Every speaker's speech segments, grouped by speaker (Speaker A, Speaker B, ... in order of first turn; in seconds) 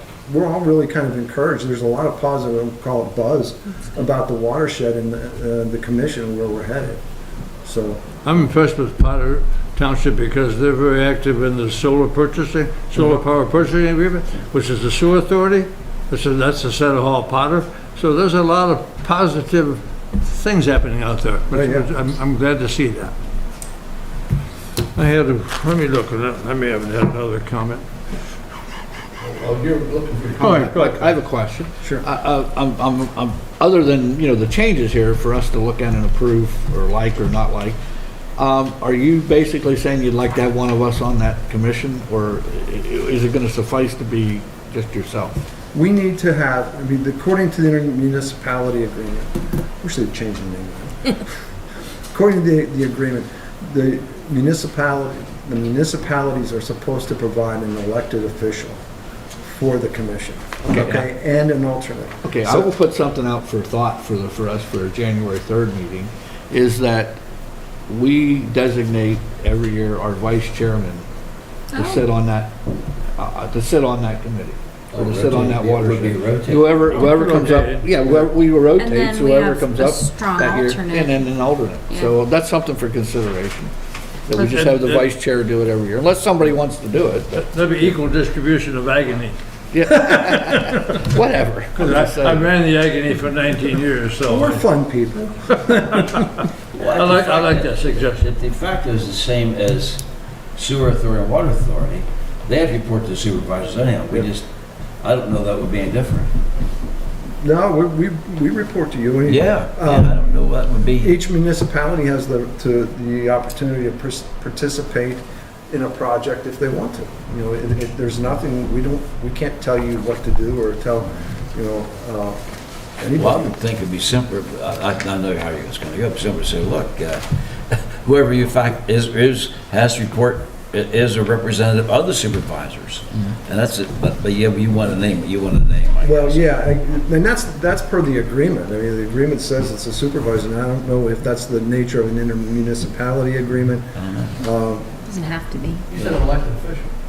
Speaker A: 0.3-7.0, 7.6-8.0, 12.9-13.2, 21.5-21.9, 45.7-51.3, 52.1-58.8, 59.4-62.7, 94.2-96.2, 107.4-110.4, 111.0-122.4, 123.0-123.6, 136.0-145.0
Speaker B: 8.2-23.1, 24.9-27.9, 30.4-31.2, 76.8-78.3, 84.3-85.1, 87.3-89.4, 89.9-91.0, 91.8-94.7, 95.9-96.3, 96.8-98.3
Speaker C: 29.2-37.8, 38.4-45.5, 60.7-61.1, 62.2-67.2, 67.9-71.1, 71.7-72.5, 73.2-83.7, 84.3-87.5, 89.7-92.5, 145.9-146.9
Speaker D: 71.7-72.0, 78.8-81.3, 145.1-145.8
Speaker E: 74.9-77.0, 96.7-100.0, 100.5-104.5, 105.0-106.4, 109.2-111.2, 123.2-136.5, 143.9-144.3